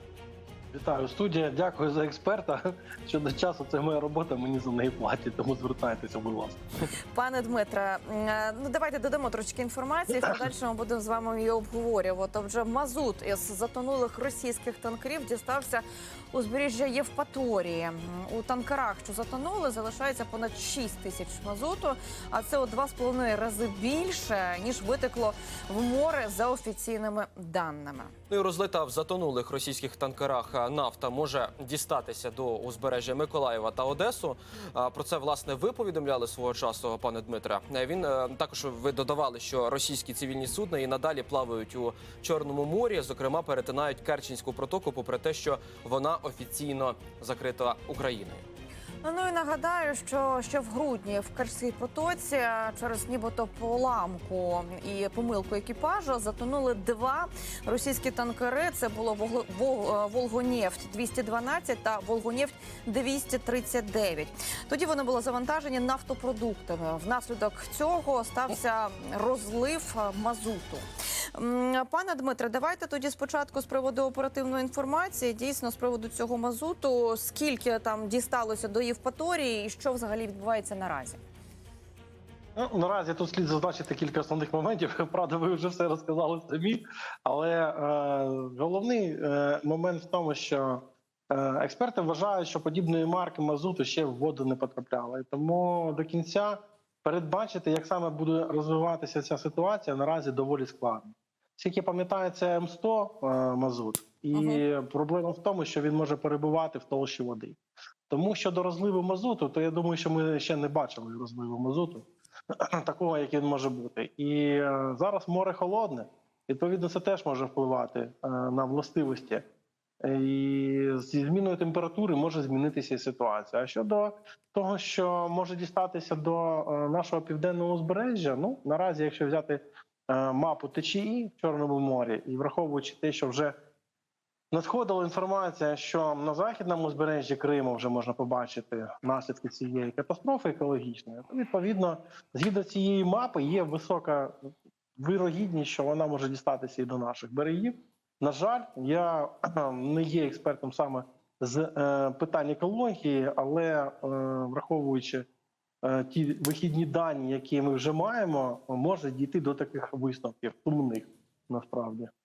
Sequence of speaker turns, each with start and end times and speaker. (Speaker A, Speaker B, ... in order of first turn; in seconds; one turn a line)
Speaker A: 0.7-6.6
Speaker B: 7.1-28.1
Speaker C: 28.3-48.4
Speaker B: 49.0-81.2
Speaker A: 82.5-107.6
Speaker B: 104.3-104.6
Speaker A: 108.1-112.0
Speaker A: 112.6-119.4
Speaker A: 120.0-133.5
Speaker A: 134.5-155.2
Speaker A: 155.8-162.1